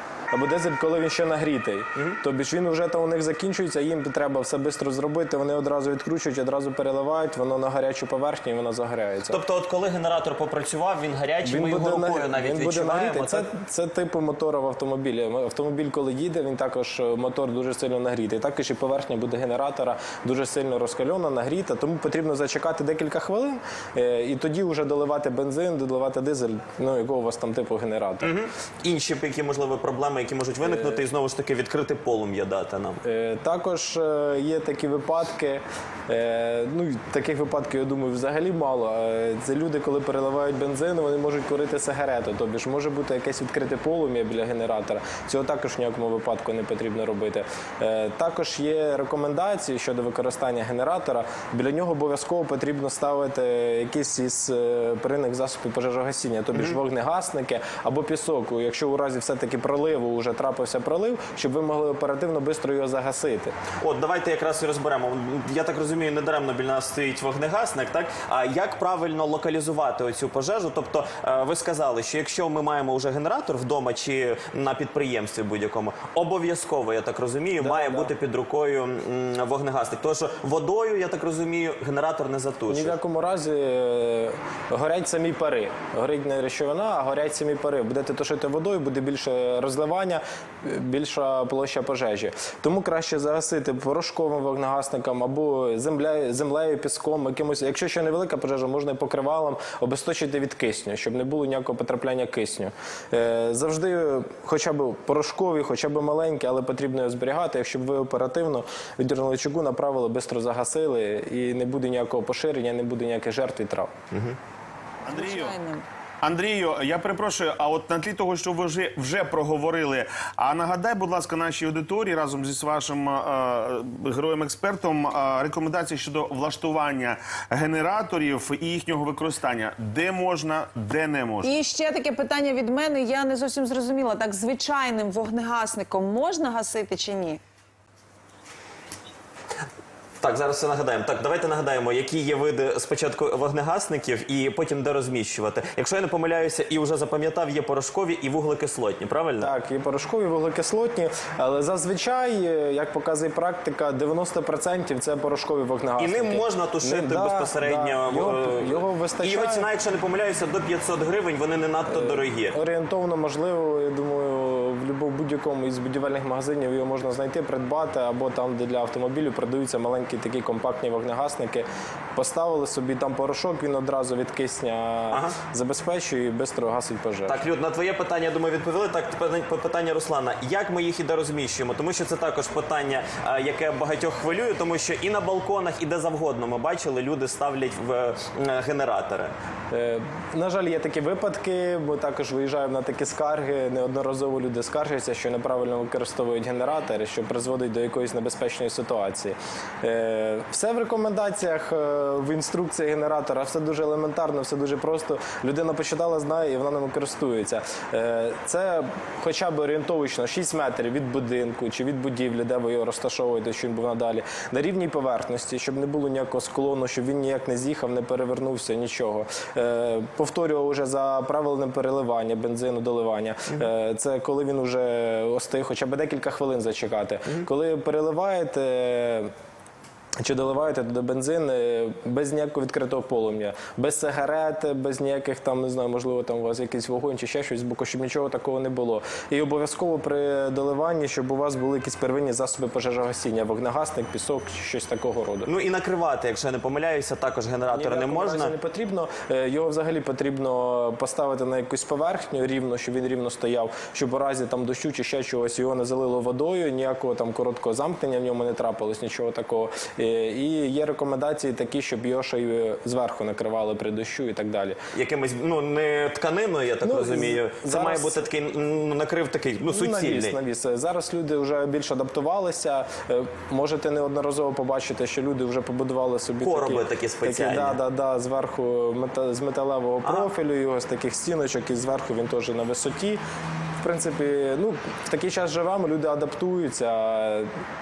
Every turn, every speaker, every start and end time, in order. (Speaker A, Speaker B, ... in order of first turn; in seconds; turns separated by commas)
Speaker A: 0.3-9.4, Speaker B: 9.3-13.5, Speaker A: 11.4-28.3, Speaker B: 28.2-33.0, Speaker A: 30.6-31.0, Speaker A: 33.0-63.5, Speaker B: 63.8-83.0, Speaker A: 77.6-78.1, Speaker A: 82.7-113.9, Speaker B: 114.1-114.4, Speaker C: 115.1-115.5, Speaker D: 115.1-115.8, Speaker C: 116.2-131.6, Speaker D: 131.4-137.4, Speaker B: 140.2-149.5, Speaker A: 149.4-159.7, Speaker B: 156.0-162.6, Speaker A: 161.8-177.4, Speaker B: 175.1-175.3, Speaker B: 177.3-189.3, Speaker A: 189.7-229.3, Speaker A: 230.2-245.5, Speaker B: 245.4-248.5, Speaker A: 247.7-264.8, Speaker B: 264.9-270.4, Speaker A: 266.8-268.2, Speaker A: 269.7-283.2, Speaker B: 276.4-277.8, Speaker A: 283.8-287.5